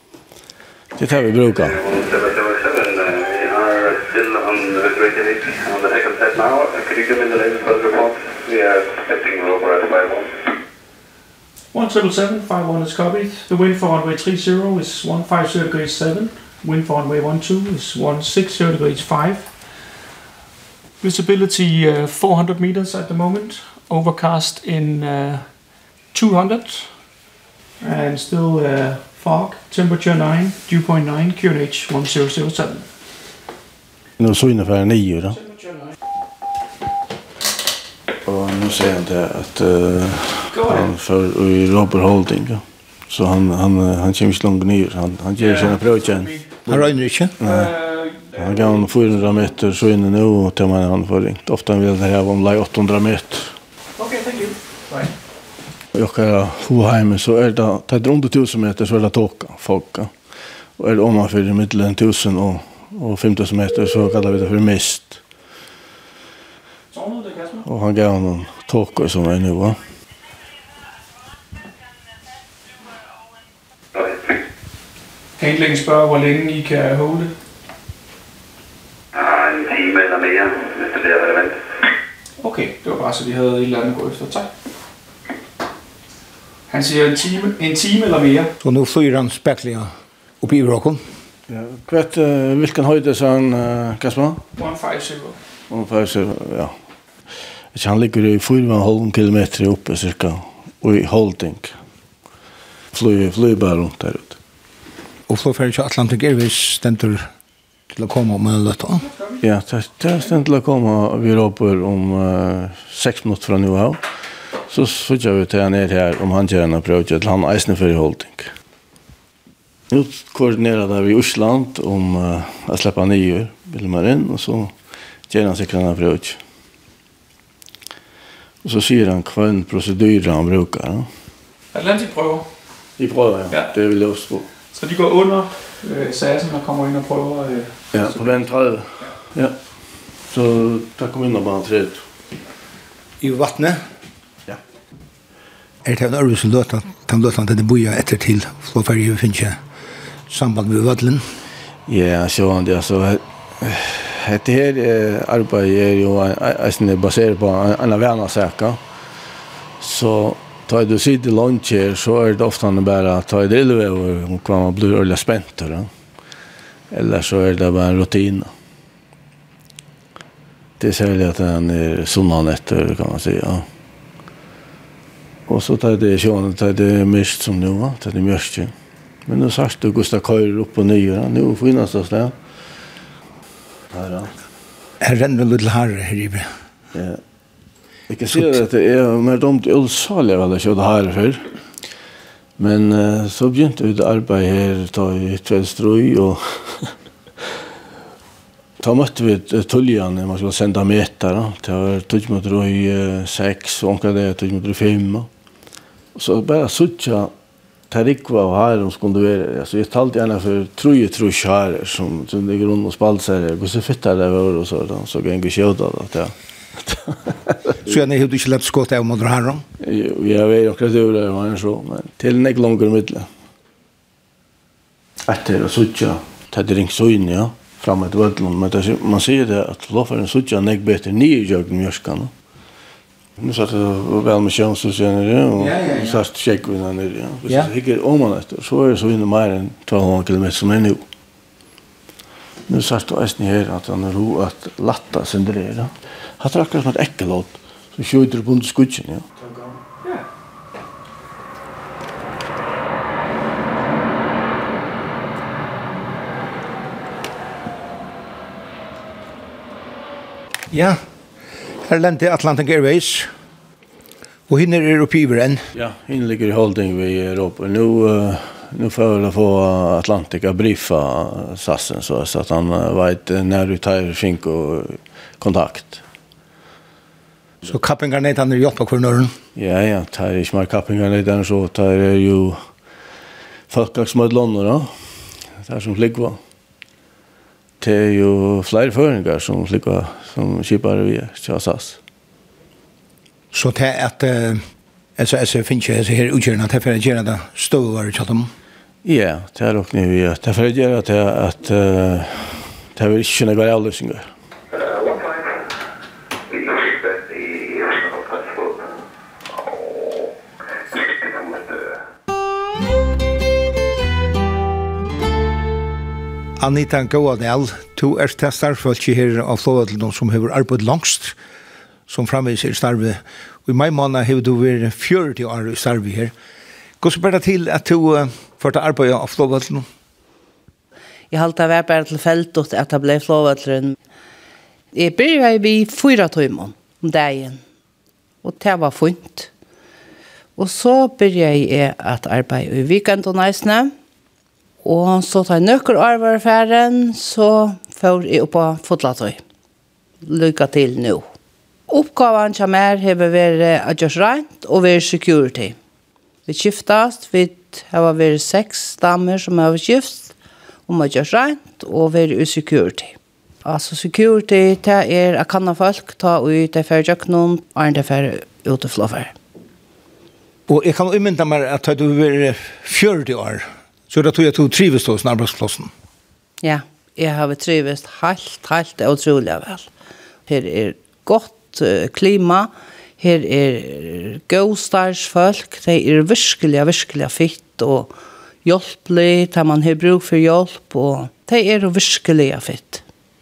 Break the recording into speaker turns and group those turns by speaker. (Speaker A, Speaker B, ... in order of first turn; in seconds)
Speaker A: 1.0-1.8, 34.2-35.4, 38.2-46.9, 47.4-47.8, 48.3-53.5, 55.9-60.1, 60.8-65.2, 67.7-69.8, 91.5-94.4, 95.7-96.7, 97.7-101.8, 102.9-104.4, 109.4-114.0, 114.7-118.5, 119.9-124.7, 125.3-126.4, 128.6-131.1, 133.0-134.5, 137.9-139.6, 140.3-142.0, 151.9-158.8, 159.8-165.9, 166.9-168.5, 170.8-173.7, 175.5-178.7, 179.3-182.3, 183.9-184.3, 186.9-187.2, 188.1-191.5, 192.6-197.0, 198.8-205.3, 206.2-207.3, 207.9-217.5, 219.8-223.3, 225.3-232.3, 233.4-241.0, 242.7-249.2, 265.8-276.0, 279.6-282.7, 283.7-286.4, 287.8-292.0, 299.0-304.3
Speaker B: 1.6-10.5, 74.0-74.3, 79.2-81.8, 304.7-305.6, 306.5-308.9, 310.9-312.0
Speaker C: 11.7-19.5, 21.0-25.6, 26.1-27.0, 27.8-32.9, 35.4-35.9, 40.5-40.9, 45.4-46.4, 47.4-48.8, 54.0-55.1, 66.9-67.7, 75.4-77.3, 82.4-84.5, 86.7-88.5, 94.6-95.4, 109.0-109.4, 131.7-132.5, 134.7-138.3
Speaker D: 46.7-47.3, 88.6-91.0, 105.3-107.3, 107.9-109.1, 143.2-143.8, 145.8-149.6, 150.3-151.3, 185.0-186.5, 217.8-219.6, 235.6-236.2, 260.7-261.0, 261.8-263.3, 264.5-265.7, 277.6-279.4, 293.5-294.7, 295.2-298.5, 316.6-321.4, 322.1-326.3, 327.0-329.9, 370.7-375.9
Speaker E: 331.3-334.0, 334.9-337.6, 338.4-339.5, 340.6-343.9, 344.8-349.4, 350.2-351.3, 351.9-355.8, 356.5-360.4, 360.9-369.4, 376.6-379.9, 380.5-388.1, 388.6-393.0